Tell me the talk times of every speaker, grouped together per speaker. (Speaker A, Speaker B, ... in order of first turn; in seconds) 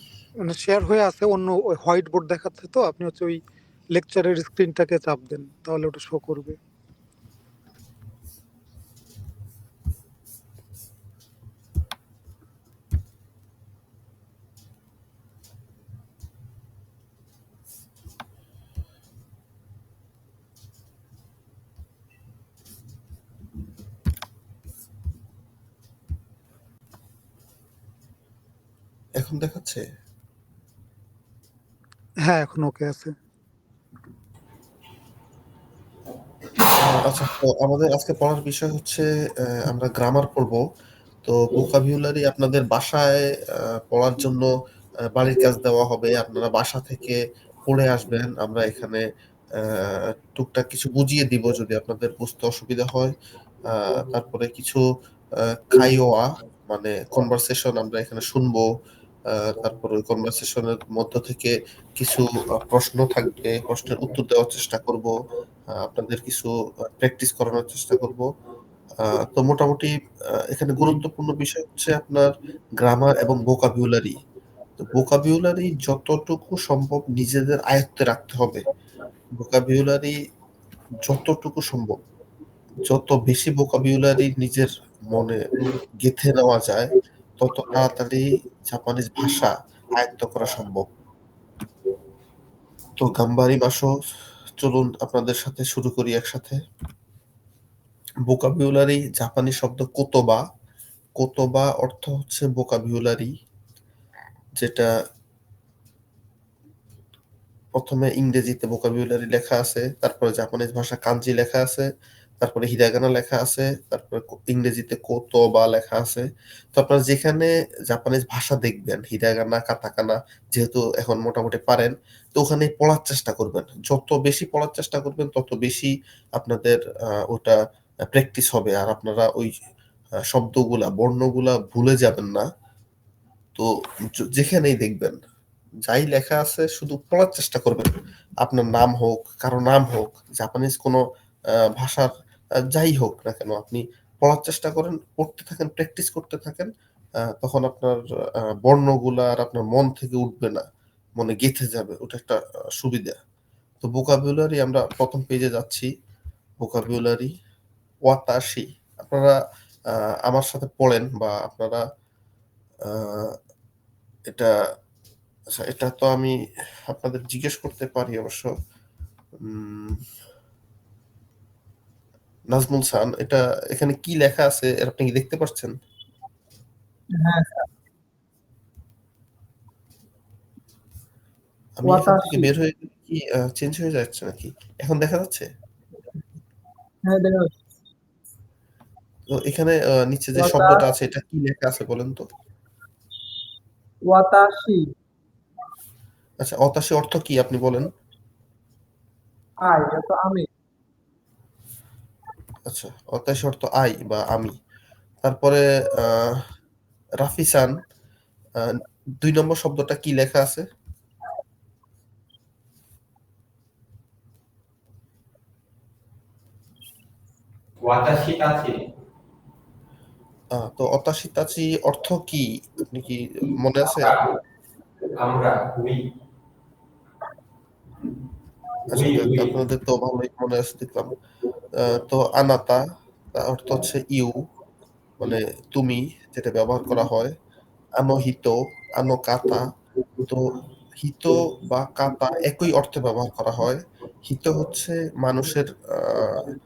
Speaker A: 0.4-3.4, 3.9-6.6, 32.2-33.1
Speaker B: 29.2-29.8, 36.7-40.6, 41.2-44.5, 45.1-49.0, 49.6-53.1, 53.7-54.8, 55.4-58.7, 59.3-65.1, 65.7-68.3, 69.0-69.9, 70.5-74.2, 74.8-78.6, 79.4-80.2, 81.0-82.0, 82.8-85.5, 86.0-90.9, 93.0-93.9, 94.6-96.6, 98.3-100.4, 101.2-103.3, 104.6-104.9, 107.7-111.9, 112.4-129.5, 130.3-132.5, 134.3-135.2, 135.9-137.9, 138.4-141.0, 141.8-142.1, 142.7-146.7, 147.3-148.0, 148.6-150.7, 151.2-153.2, 153.8-155.9, 156.6-157.3, 158.1-159.4, 160.0-161.8, 162.9-163.3, 165.6-166.3, 166.9-168.5, 169.4-170.0, 172.5-175.7, 181.8-185.5, 189.3-192.2, 196.4-197.9, 202.7-204.5, 205.2-206.4, 207.2-207.8, 208.6-210.7, 220.6-224.2, 228.9-231.1, 231.8-232.8, 233.3-234.4, 235.2-237.3, 238.0-239.7, 240.2-246.5
Speaker C: 177.2-177.7, 181.9-182.5, 187.1-187.6, 190.4-190.8, 194.1-194.9, 199.6-200.4
Speaker D: 217.8-218.8, 223.9-224.3, 225.2-226.0, 228.9-229.5